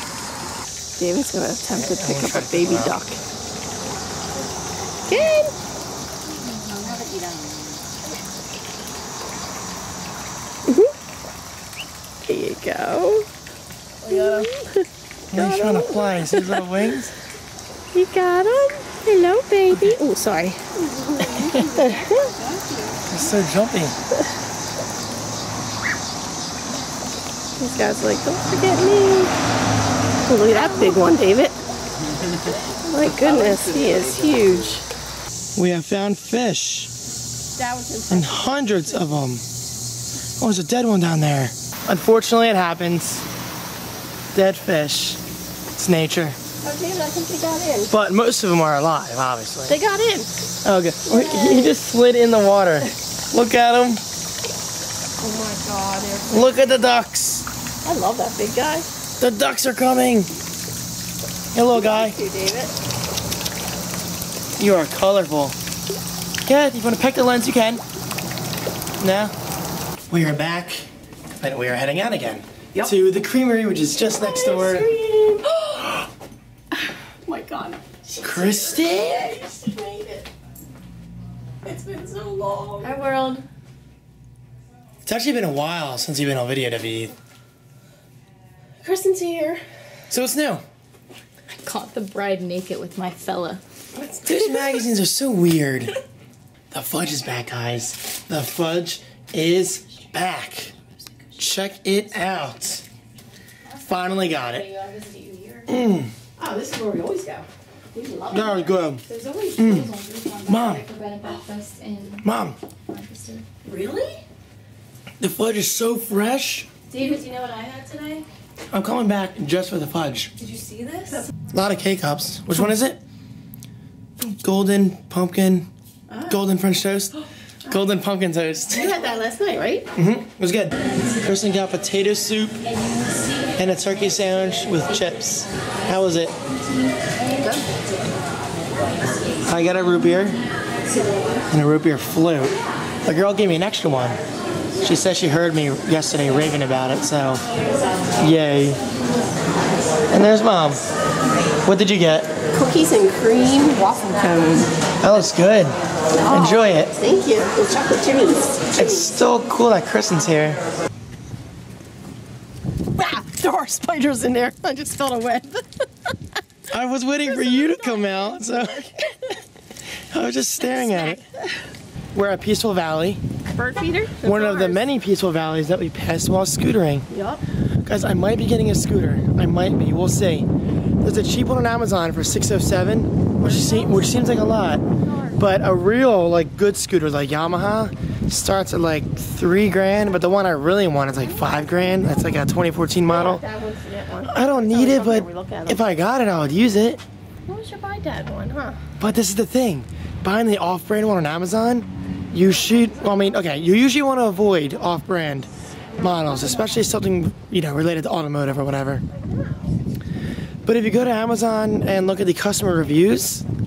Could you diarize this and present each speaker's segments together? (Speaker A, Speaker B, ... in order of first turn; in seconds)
Speaker A: 1.0-3.2, 5.1-5.5, 10.7-10.9, 12.3-13.3, 14.1-16.8, 17.9-22.4, 27.6-29.3, 30.3-31.6, 32.8-34.8, 37.5-39.1, 46.6-47.9, 49.7-50.5, 51.1-51.7, 55.2-56.8, 57.8-58.9, 61.7-62.7, 74.1-75.6, 77.3-80.3, 81.7-83.0, 88.8-89.6, 94.0-94.4, 106.4-108.8, 113.7-114.2, 126.1-126.4, 128.7-129.9, 137.4-137.7, 152.5-154.7, 156.2-159.1, 163.0-166.1, 167.2-169.3, 170.6-171.5, 173.6-174.8, 177.1-177.4, 183.4-184.3, 185.0-185.4, 193.1-195.8, 197.5-198.8, 202.7-203.4, 206.0-206.8, 209.1-209.8
Speaker B: 1.8-3.0, 15.3-17.1, 21.3-21.7, 23.1-23.9, 35.6-36.9, 38.1-39.5, 40.4-43.2, 44.3-45.2, 45.8-46.4, 47.9-49.8, 50.6-54.0, 56.3-57.5, 59.2-60.3, 61.5-62.2, 64.6-65.6, 66.5-67.8, 69.0-69.3, 70.1-70.9, 71.4-74.8, 78.2-79.4, 85.1-87.1, 90.1-90.7, 94.1-96.0, 96.7-100.7, 101.4-102.8, 103.9-104.7, 105.7-106.1, 108.3-109.0, 109.6-109.9, 110.5-110.8, 112.2-112.6, 115.2-116.7, 118.7-120.3, 121.5-123.0, 124.2-125.7, 126.3-127.1, 127.7-128.9, 129.9-132.7, 133.6-136.4, 139.5-140.4, 141.5-144.2, 144.8-147.4, 148.2-148.8, 150.1-150.8, 151.7-152.3, 155.0-155.8, 156.3-156.9, 158.8-160.6, 166.7-168.9, 170.1-171.2, 172.1-173.2, 174.2-177.1, 177.9-180.5, 181.0-184.8, 185.4-193.4, 194.3-197.0, 199.0-209.0, 210.7-213.4
Speaker C: 6.3-7.8, 14.1-14.5, 21.4-23.0, 82.8-83.4, 91.6-93.6, 103.7-105.7, 109.1-112.3, 112.9-113.5, 116.9-118.2, 120.4-121.3